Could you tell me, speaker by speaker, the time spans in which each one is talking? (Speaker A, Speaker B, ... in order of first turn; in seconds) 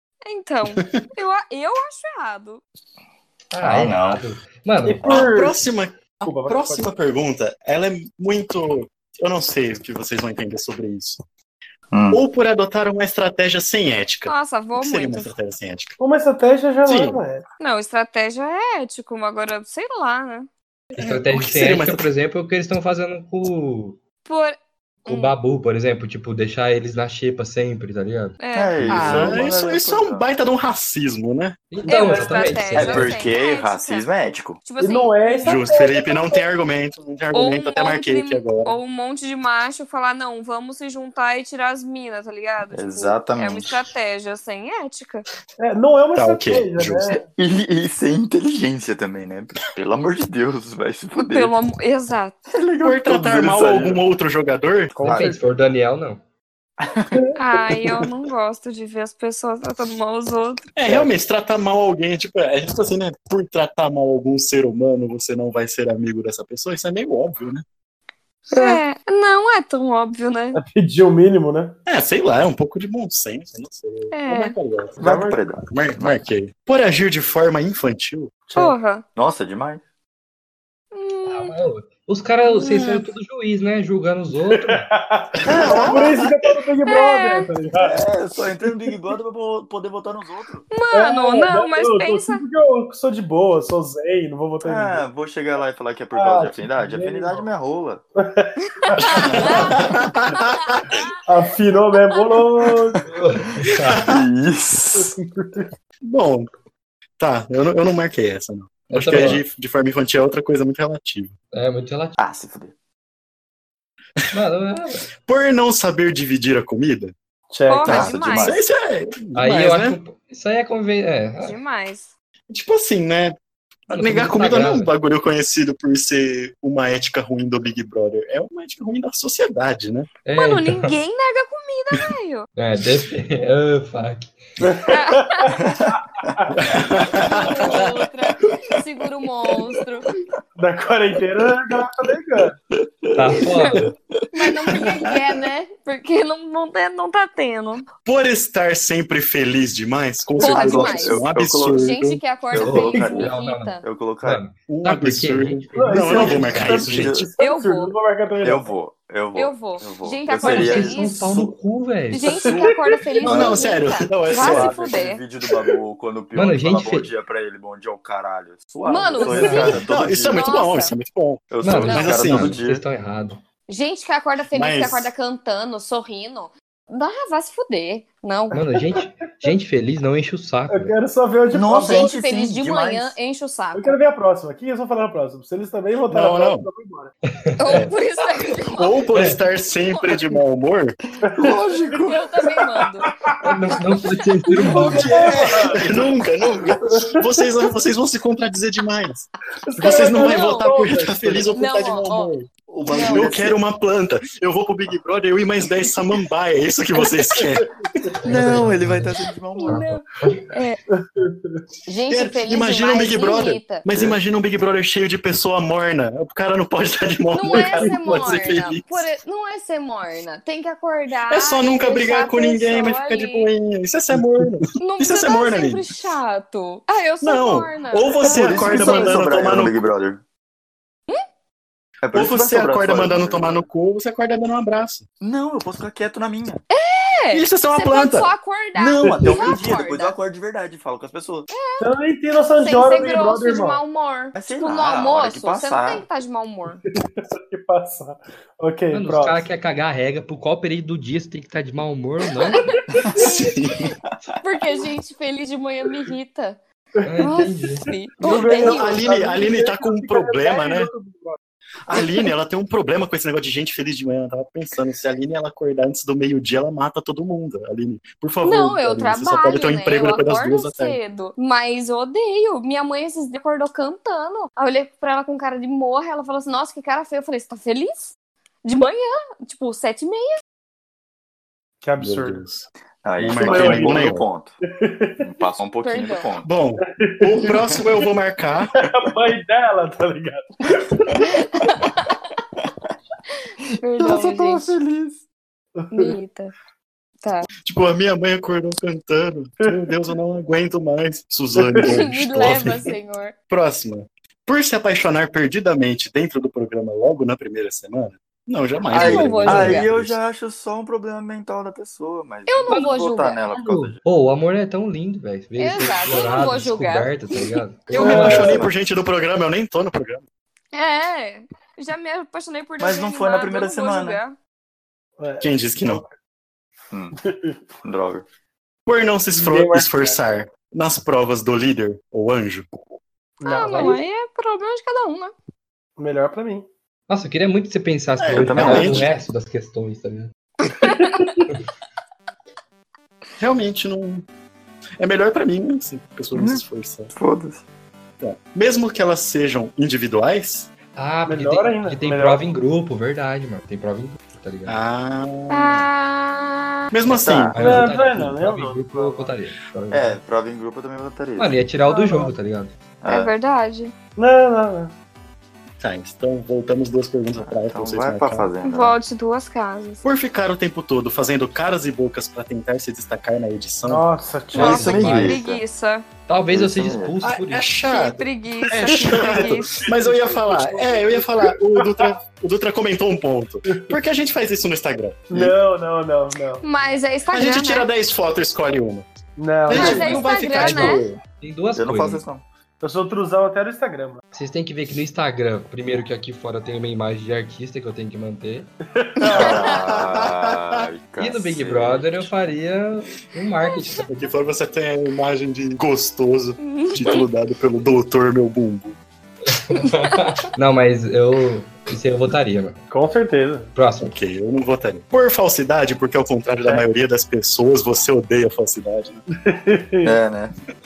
Speaker A: 0.2-2.6, 14.2-15.3, 17.6-20.5, 24.2-25.3, 28.4-29.4, 31.9-34.1, 34.6-36.1, 37.3-45.2, 51.2-52.4, 57.3-60.7, 68.5-70.6, 74.1-74.5, 78.5-79.0, 80.9-81.6, 82.4-83.1, 86.8-87.5, 90.7-92.4, 98.8-99.8, 100.3-101.0, 117.7-118.6, 121.4-122.1, 130.3-132.4, 134.9-135.7, 137.0-140.1, 143.5-147.8, 150.4-151.2, 151.7-153.8, 157.4-157.9, 159.3-161.2, 162.1-165.2, 168.8-170.9, 173.7-178.6, 181.8-184.0, 187.6-189.1, 189.9-190.2, 192.0-193.1, 200.0-200.7, 201.5-202.3, 202.8-203.4, 209.6-210.8, 211.8-213.8, 217.3-223.5, 224.8-229.2, 236.7-240.2, 241.5-241.9, 242.6-246.8, 252.5-253.4, 254.4-256.6, 257.2-259.0, 268.4-280.4, 285.8-286.3, 291.1-292.2, 293.8-294.8, 295.9-296.5, 297.2-297.5, 301.8-303.3, 308.9-309.9, 312.5-313.5, 315.6-317.5, 320.7-324.4, 333.4-335.3, 340.6-341.3, 355.5-356.9, 363.1-363.9, 368.6-370.0, 374.6-376.1, 377.9-379.9, 386.6-387.9, 389.7-391.0, 399.4-399.7, 403.6-404.0, 406.6-407.2, 409.7-410.2
Speaker B: 0.7-1.0, 5.0-11.2, 12.1-16.0, 16.8-17.2, 21.0-22.1, 28.9-31.6, 35.4-38.8, 46.1-47.1, 52.8-54.9, 60.8-67.6, 71.9-75.0, 75.7-78.4, 85.3-86.2, 98.9-100.9, 103.8-104.2, 106.0-106.5, 107.2-111.3, 115.2-117.1, 117.9-120.0, 122.5-123.3, 123.9-130.1, 136.5-137.9, 144.7-145.2, 148.0-152.2, 154.7-157.3, 163.2-164.8, 169.7-172.6, 174.5-175.1, 186.1-186.7, 188.7-191.0, 194.8-202.5, 203.0-207.7, 212.1-219.1, 221.3-225.9, 227.2-229.7, 232.1-235.0, 237.3-238.3, 253.1-253.9, 258.6-260.9, 261.9-271.0, 282.0-284.2, 286.4-288.7, 297.6-302.8, 303.5-310.2, 317.9-320.2, 325.4-326.0, 328.9-332.7, 338.2-339.1, 343.4-344.2, 345.0-347.1, 348.2-350.7, 354.7-355.9, 356.9-357.6, 365.8-368.5, 370.0-374.0, 377.2-385.5, 387.3-389.1, 389.6-391.2, 399.3-400.8, 404.1-409.0, 414.0-419.2
Speaker C: 3.5-5.2, 20.9-24.0, 25.1-28.4, 31.7-33.2, 55.0-56.2, 81.2-84.8, 103.1-104.1, 108.9-109.4, 111.5-112.2, 114.3-115.1, 119.3-121.6, 123.9-124.9, 130.2-130.9, 132.6-134.7, 143.1-143.9, 152.6-156.8, 160.4-162.3, 166.3-167.1, 169.4-169.7, 171.6-173.4, 178.5-180.9, 187.3-187.9, 189.1-189.4, 193.4-195.3, 208.2-209.1, 209.7-210.5, 248.9-252.7, 257.0-257.9, 313.5-318.6, 337.1-340.3, 350.9-354.8, 357.5-360.2, 361.4-362.7, 374.5-375.4, 376.3-377.7, 390.3-392.2, 394.3-398.7, 401.2-404.1, 409.5-412.8, 413.8-414.1
Speaker D: 3.6-4.2, 11.9-12.2, 28.5-30.2, 32.7-34.6, 42.7-43.8, 47.2-51.5, 52.5-54.0, 55.0-55.3, 56.8-57.2, 75.0-76.2, 79.1-79.8, 85.5-86.3, 87.8-90.7, 94.6-98.0, 99.3-99.9, 104.0-105.1, 112.2-112.7, 117.8-118.6, 135.6-136.8, 142.7-144.2, 150.4-151.9, 152.5-154.4, 156.0-157.3, 158.4-161.6, 163.2-163.7, 164.3-170.5, 171.5-172.8, 181.5-183.2, 191.2-192.2, 195.8-196.2, 202.7-203.6, 208.2-209.9, 213.9-214.2, 228.2-230.2, 232.0-233.7, 235.2-236.6, 238.8-241.5, 244.3-246.0, 254.1-254.3, 283.0-284.6, 285.2-286.5, 294.0-295.2, 308.9-314.0, 318.0-318.6, 322.8-324.2, 326.9-327.1, 327.8-328.2, 338.3-339.1, 346.3-347.6, 357.1-357.6, 359.9-361.6, 363.0-363.3, 367.4-368.9, 374.5-375.6, 376.5-377.1, 391.7-392.4, 399.2-402.2, 420.0-420.5
Speaker E: 4.8-5.6, 6.2-6.8, 16.0-17.4, 34.8-36.3, 45.6-47.2, 54.9-55.4, 57.1-58.0, 70.5-71.8, 75.0-75.5, 78.5-78.7, 84.5-88.0, 90.9-95.0, 96.1-97.5, 98.2-99.6, 101.2-103.0, 104.9-105.7, 117.5-118.1, 134.6-136.6, 140.6-142.6, 155.7-158.7, 162.2-163.2, 169.3-169.7, 178.7-179.0, 180.7-182.1, 183.7-187.1, 191.2-192.0, 193.0-193.8, 194.5-196.1, 196.8-197.3, 199.7-201.5, 207.0-208.1, 210.9-211.6, 217.5-217.9, 239.0-239.6, 241.8-243.8, 246.9-249.4, 252.6-253.2, 257.0-257.5, 258.2-261.4, 281.8-282.4, 283.4-285.2, 286.8-287.8, 288.7-291.3, 295.8-296.1, 301.6-301.9, 317.9-318.7, 325.2-326.1, 327.2-327.6, 329.3-330.2, 333.4-334.0, 336.0-336.7, 340.7-341.4, 351.2-352.5, 357.6-359.3, 361.9-362.3, 364.2-364.9, 373.8-375.1, 378.8-382.1, 385.3-386.6, 389.4-390.2, 392.8-394.2, 398.9-399.6, 412.9-413.7, 419.3-420.1